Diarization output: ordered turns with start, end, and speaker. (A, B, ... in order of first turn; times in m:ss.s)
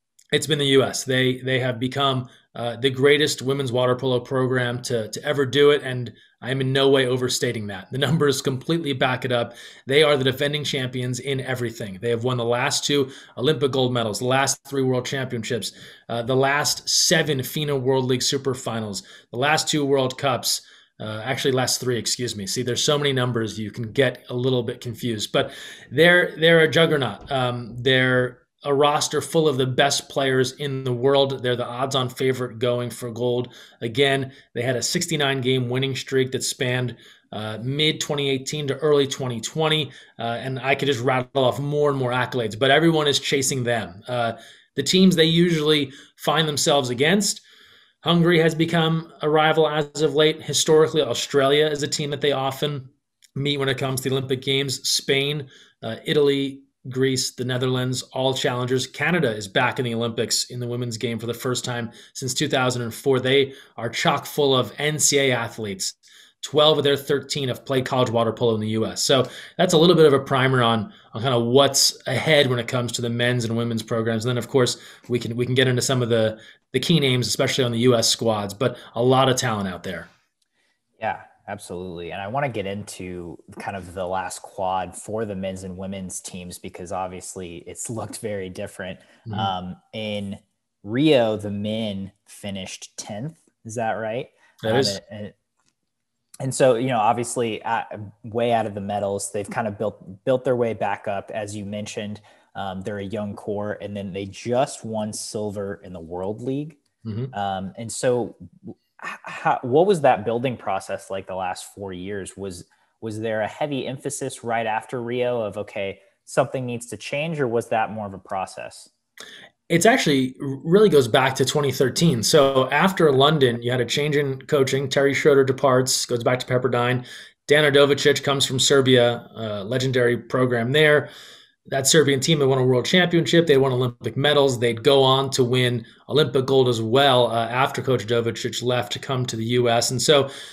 0:00.3-0:47.4 A
0:48.0-1:20.1 A
1:21.0-1:35.4 B
1:29.3-1:29.5 A
1:34.6-1:35.0 A
1:36.4-1:46.8 B
1:47.0-1:47.3 A
1:47.3-1:58.9 B
1:59.7-2:11.1 A
2:11.7-2:20.3 A